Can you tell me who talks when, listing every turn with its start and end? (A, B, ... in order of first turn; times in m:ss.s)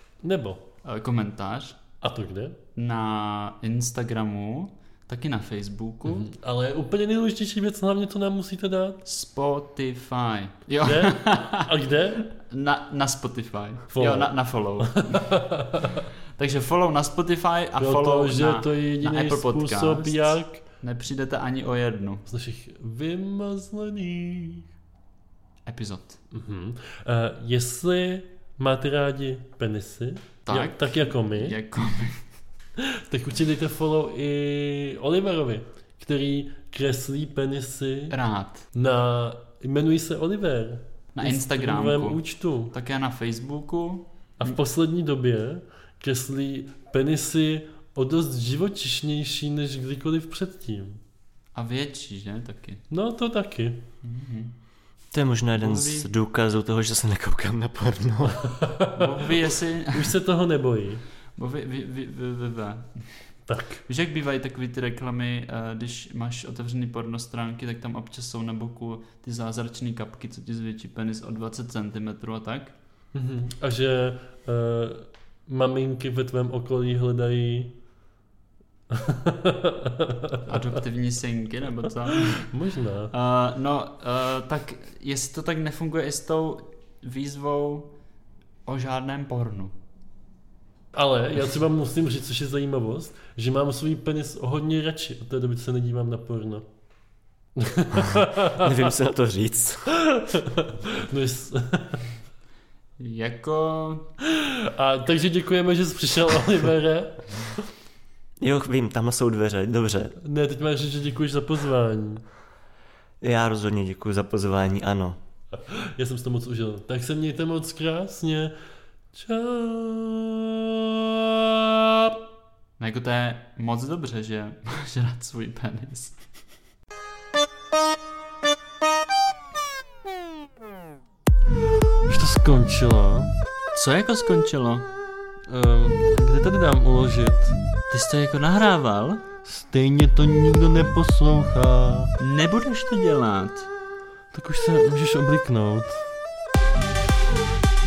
0:00.2-0:00.6 A
0:00.8-0:01.8 B
0:02.0-0:02.6 A
0:02.8-0:06.3 B
0:06.0-0:09.0 A
0:09.0-0:15.7 B
0:10.8-0:12.2 A
0:13.9-0:16.0 A
0:16.4-0:22.2 B
0:17.8-0:20.6 A
0:22.2-0:24.6 A
0:25.6-0:26.2 B
0:26.3-0:31.6 A
0:30.4-0:32.2 B
0:32.8-0:38.1 A
0:38.1-0:38.7 B
0:38.7-0:42.7 A
0:41.1-0:44.6 B
0:44.4-0:51.0 A
0:51.5-0:52.8 B
0:52.9-0:53.8 A
0:54.0-0:54.5 B
0:55.1-0:58.6 C
0:55.6-0:56.1 B
0:58.5-1:01.0 A
0:59.0-1:00.1 B
1:01.4-1:03.1 B
1:03.5-1:03.8 A
1:03.8-1:12.7 B
1:13.1-1:17.7 A
1:18.9-1:20.8 A
1:20.4-1:22.5 B
1:22.1-1:23.1 A
1:23.1-1:27.9 B
1:28.6-1:29.7 B
1:30.9-1:36.6 A
1:37.6-1:38.8 A
1:38.5-1:39.9 C
1:39.9-1:42.0 A
1:43.0-1:44.1 B
1:44.2-1:47.7 A
1:48.4-1:50.2 C
1:50.2-1:52.2 A
1:53.2-1:55.2 C
1:55.7-1:58.5 A
1:59.1-2:02.2 A
2:02.8-2:06.2 B
2:12.1-2:13.4 A
2:13.7-2:14.9 B
2:15.4-2:17.6 A
2:17.9-2:19.2 B
2:19.4-2:22.1 A
2:22.2-2:23.7 B
2:24.3-2:26.0 A